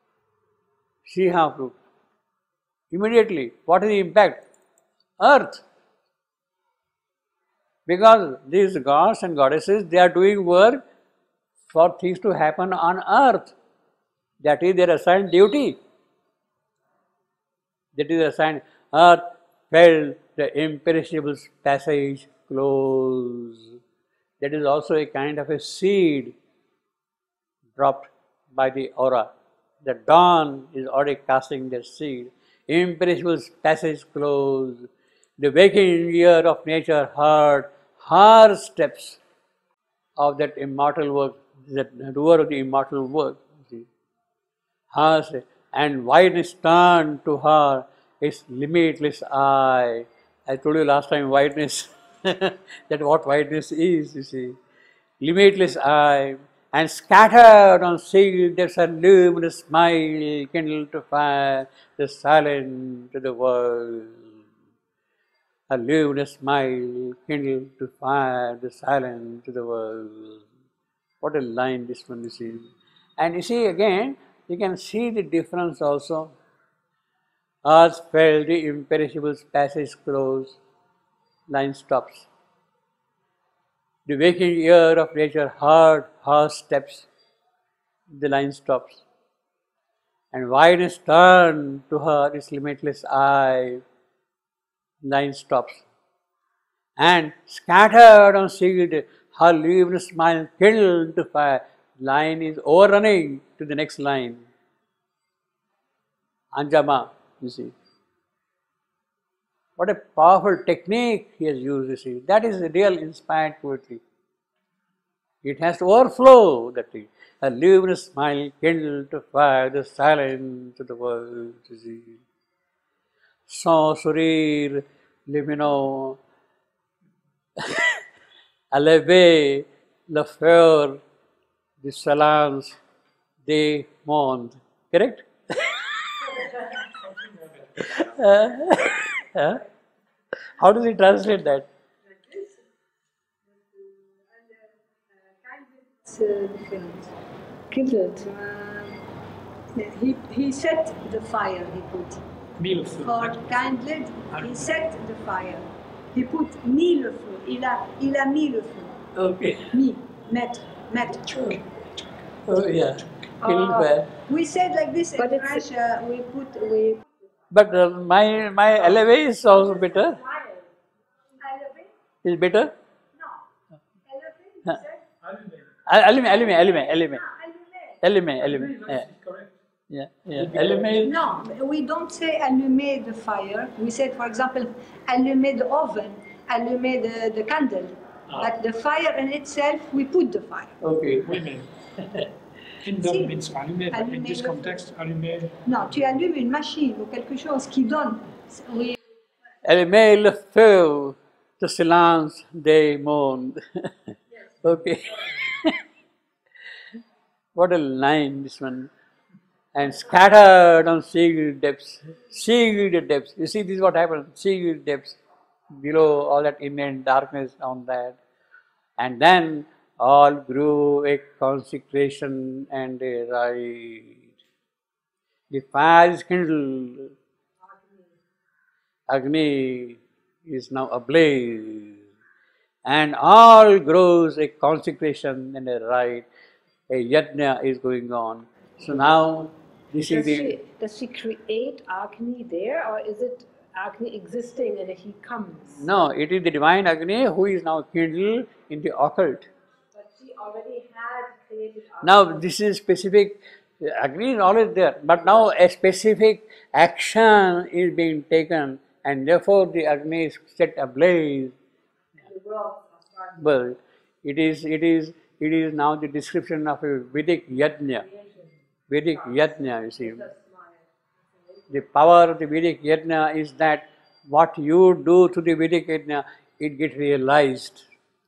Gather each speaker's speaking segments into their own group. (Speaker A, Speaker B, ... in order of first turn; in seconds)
Speaker A: 1.0-1.8, 2.9-4.4, 5.2-5.6, 7.9-10.8, 11.7-13.5, 14.4-15.8, 17.9-23.7, 24.4-26.3, 27.8-29.3, 29.8-34.9, 35.4-39.2, 40.2-43.9, 44.9-54.5, 55.2-64.3, 65.7-70.4, 71.2-76.3, 77.6-80.6, 81.5-82.3, 84.0-87.1, 88.1-89.0, 90.3-93.8, 95.0-95.8, 97.0-104.5, 106.5-107.7, 109.8-114.0, 115.4-122.2, 123.5-126.2, 127.6-128.0, 128.7-131.0, 131.8-132.8, 133.4-136.3, 137.8-139.6, 140.5-141.7, 159.1-159.7, 161.3-161.6, 162.4-164.1, 167.5-170.2, 172.2-172.7, 175.8-177.2, 178.0-179.1, 179.9-181.2, 190.8-191.4, 199.6-205.8, 207.5-208.9, 209.7-215.2, 215.7-218.2, 219.0-224.2, 225.5-227.1, 229.1-232.0, 232.8-236.2, 236.9-240.5, 245.8-249.5, 252.0-261.5, 263.4-268.1, 268.9-270.2, 271.7-277.8
Speaker B: 137.1-137.3, 152.6-153.4, 154.3-154.7, 175.2-175.7, 178.4-179.5, 180.3-181.4, 191.2-191.7, 192.8-195.9
Speaker C: 145.4-147.1, 148.2-149.0, 149.7-152.2, 153.0-159.0, 159.7-161.5, 164.3-167.0, 171.4-171.9, 174.0-175.0, 177.0-177.9, 181.0-190.8, 193.0-193.4, 193.9-194.8, 195.6-198.9
Speaker D: 147.7-148.3, 163.4-163.9, 165.2-165.6, 169.6-170.7, 227.7-228.1, 240.0-245.8, 249.9-252.4, 262.2-263.5, 268.1-268.5, 269.1-269.4, 270.0-270.8